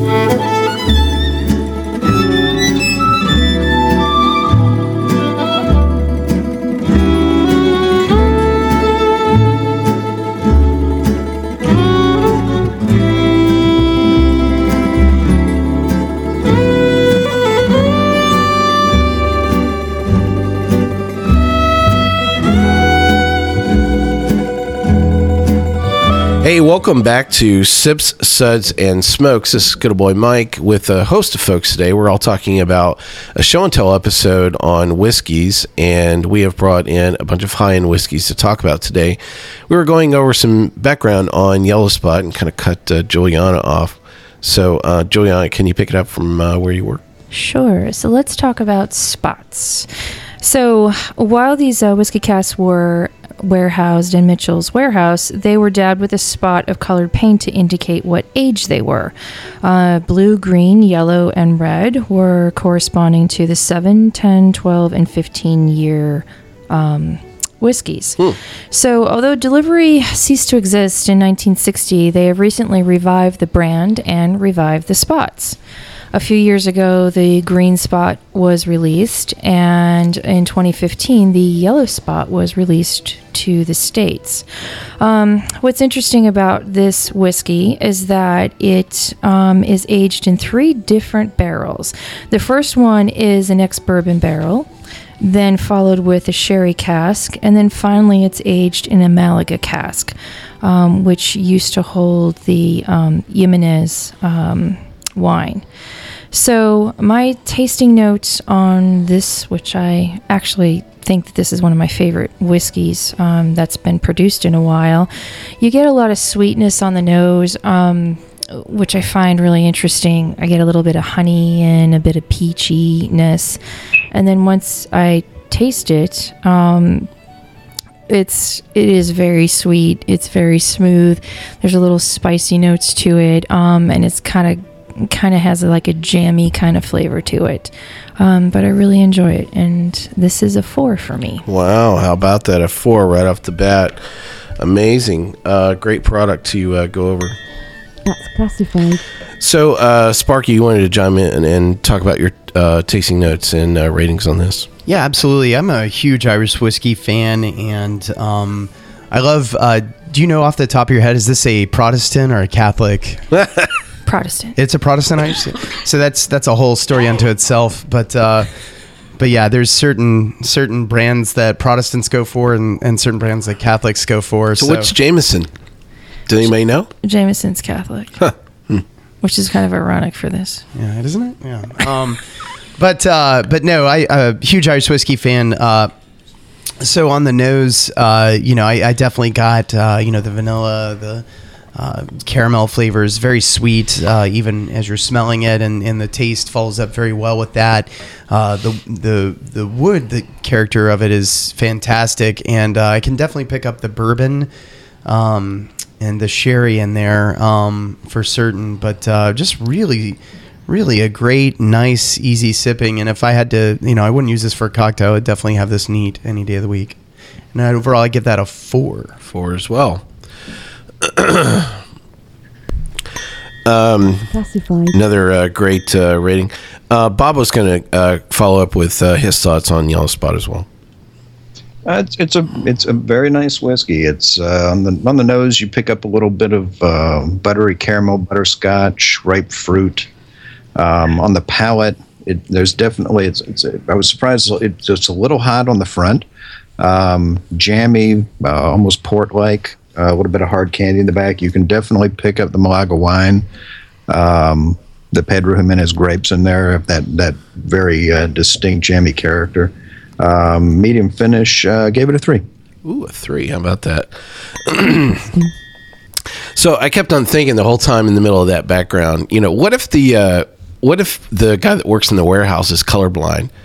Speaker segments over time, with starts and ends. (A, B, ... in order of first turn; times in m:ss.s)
0:26.4-0:39.2 A
0:39.7-0:47.0 A
0:47.3-0:49.9 B
0:50.4-1:08.2 B
1:08.7-1:15.6 B
1:16.1-1:24.4 B
1:25.0-1:34.7 B
1:35.2-1:45.6 B
1:46.3-2:03.6 B
2:04.1-2:07.1 B
2:08.1-2:21.4 B
2:21.5-2:24.0 A
2:24.6-2:27.4 A
2:28.0-2:29.0 C
2:29.4-2:34.7 A
2:34.9-2:43.2 D
2:43.3-2:43.7 A
2:44.1-2:44.6 B
2:44.6-2:48.5 D
2:49.2-2:54.9 D
2:54.6-2:55.5 A
2:56.3-2:56.9 A
2:57.0-2:58.3 B
2:58.2-2:58.8 A
2:59.2-3:00.6 B
3:00.8-3:02.2 D
3:02.8-3:05.9 D
3:06.8-3:24.5 D
3:25.0-3:37.0 D
3:37.5-3:39.1 D
3:39.2-3:40.0 A
3:41.0-3:41.8 A
3:43.7-3:44.3 A
3:44.3-3:45.0 C
3:44.9-3:50.7 A
3:51.9-4:00.1 E
4:00.8-4:06.2 E
4:06.8-4:13.5 E
4:14.1-4:22.4 E
4:22.8-4:24.1 A
4:24.7-4:25.3 A
4:25.1-4:25.5 C
4:26.6-4:33.5 A